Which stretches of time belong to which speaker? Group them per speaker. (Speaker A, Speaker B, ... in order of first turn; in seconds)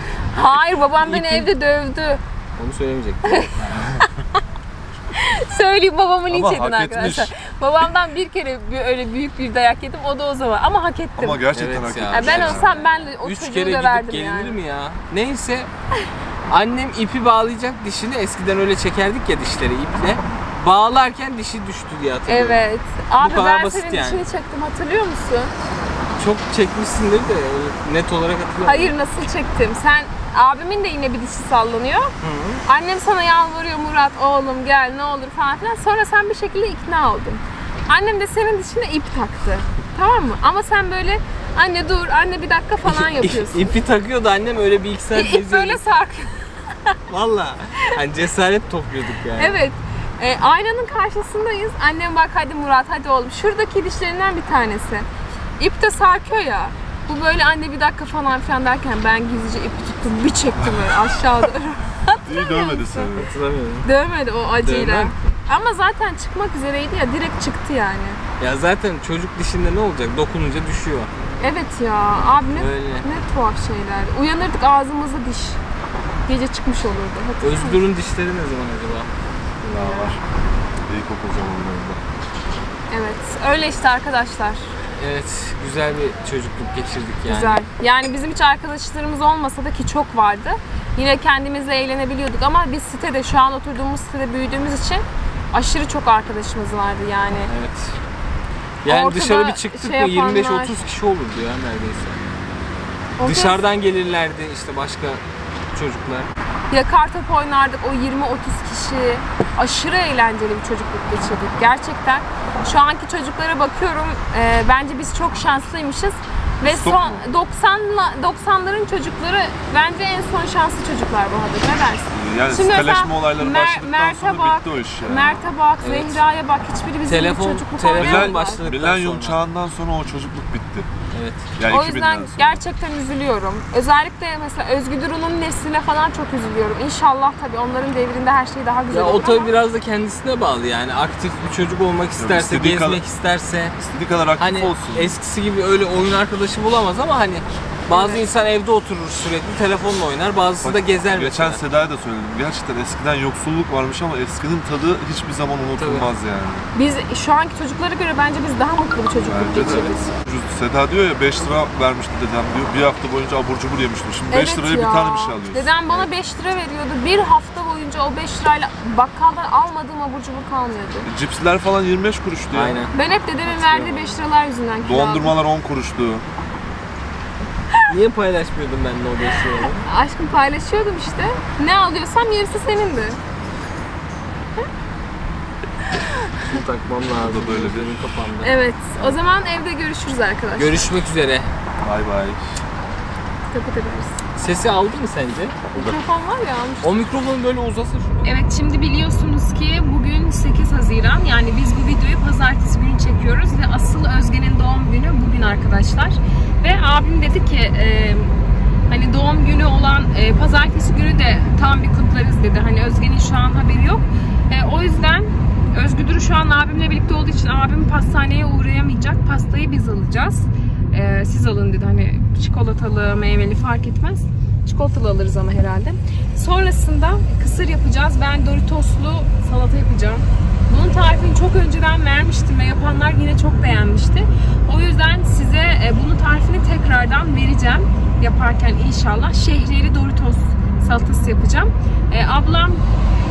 Speaker A: 0.3-2.2, 3.2-4.1, 5.2-11.4, 12.1-14.6, 22.3-25.5, 28.6-32.1, 32.6-43.8, 45.1-47.0, 49.4-55.1, 55.6-63.1, 63.8-68.2, 71.4-75.6, 76.3-77.8, 79.6-80.2, 82.9-84.7, 87.3-97.5, 98.9-100.8, 103.2-103.6, 106.7-128.6, 131.7-139.6, 147.9-148.2, 156.8-160.1, 164.3-171.1, 172.9-175.4, 179.8-183.2, 186.0-186.3, 188.4-190.9, 193.5-194.2, 195.7-197.0, 198.2-208.3, 208.9-242.8
Speaker B: 1.0-1.5, 2.6-3.8, 11.5-15.7, 16.5-22.6, 23.2-24.2, 26.1-28.9, 32.2-32.6, 42.8-45.8, 47.1-49.6, 63.2-63.9, 64.6-65.2, 68.4-71.1, 72.5-73.1, 77.4-79.1, 85.0-87.7, 97.5-98.0, 98.8-102.2, 103.2-105.2, 105.7-106.3, 125.8-126.2, 127.0-129.4, 131.1-131.5, 138.9-143.8, 144.4-151.6, 155.8-156.1, 172.5-172.9, 173.4-174.2, 177.9-179.9, 186.4-189.2, 190.6-191.5, 194.4-195.7, 196.8-198.4
Speaker C: 6.3-7.3, 11.2-12.8, 62.2-63.3, 79.7-80.2, 80.9-82.0, 116.6-117.2, 122.1-125.5, 128.0-130.9, 131.6-132.6, 142.2-143.0, 143.8-145.2, 150.6-156.7, 159.2-165.7, 171.1-172.8, 174.8-176.3, 187.2-188.0, 191.8-192.4